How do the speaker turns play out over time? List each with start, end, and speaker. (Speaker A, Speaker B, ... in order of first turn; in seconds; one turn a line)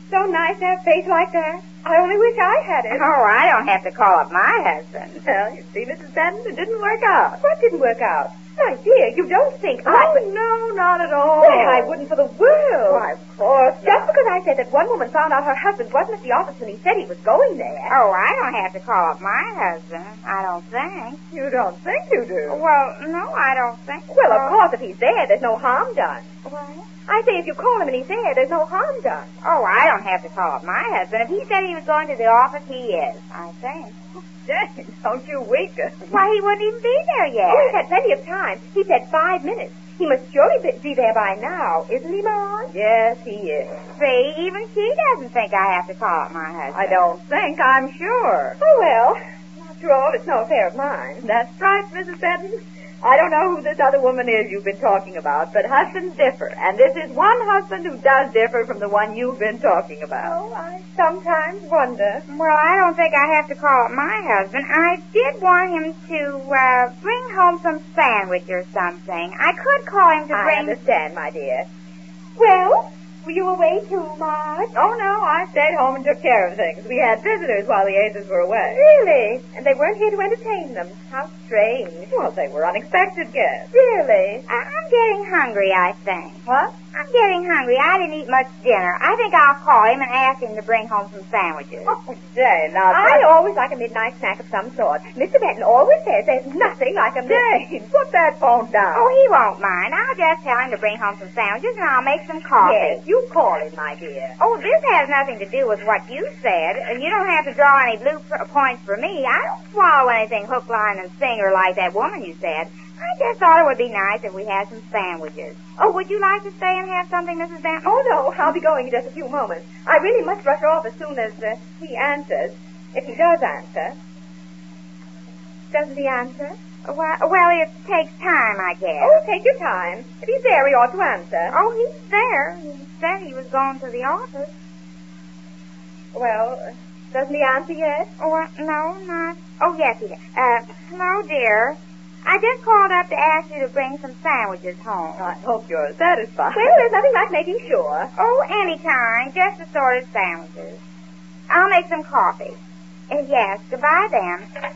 Speaker A: 0.1-3.0
Speaker B: 2.9-5.2
Speaker C: 5.2-7.4
Speaker A: 7.4-10.2
Speaker C: 9.9-11.9
Speaker A: 11.4-13.1
Speaker C: 13.0-14.0
Speaker A: 13.8-17.9
Speaker B: 17.9-21.2
Speaker C: 21.3-22.6
Speaker B: 22.5-24.6
Speaker A: 24.1-26.3
Speaker B: 26.4-26.8
Speaker A: 27.1-29.3
Speaker B: 29.4-34.0
Speaker C: 34.5-36.2
Speaker B: 36.1-37.8
Speaker A: 37.5-42.7
Speaker C: 42.7-43.7
Speaker B: 43.9-47.0
Speaker C: 46.7-48.6
Speaker A: 48.6-51.3
Speaker C: 51.2-60.3
Speaker A: 60.2-62.2
Speaker B: 62.3-70.8
Speaker A: 70.3-71.7
Speaker A: 72.4-74.8
Speaker C: 74.7-78.8
Speaker A: 78.6-82.2
Speaker C: 82.1-83.7
Speaker A: 83.7-84.5
Speaker B: 84.5-86.4
Speaker C: 86.4-86.7
Speaker B: 86.9-91.9
Speaker C: 91.8-93.2
Speaker A: 92.9-97.6
Speaker C: 97.2-98.7
Speaker A: 98.7-99.1
Speaker B: 98.9-103.0
Speaker A: 102.6-104.3
Speaker B: 104.4-118.0
Speaker A: 117.8-124.0
Speaker A: 125.7-126.5
Speaker B: 126.8-129.2
Speaker A: 129.0-131.6
Speaker B: 131.5-134.5
Speaker A: 136.1-138.1
Speaker B: 138.2-145.3
Speaker C: 145.2-146.8
Speaker A: 146.5-148.1
Speaker B: 148.2-150.8
Speaker B: 151.5-152.6
Speaker B: 153.1-154.5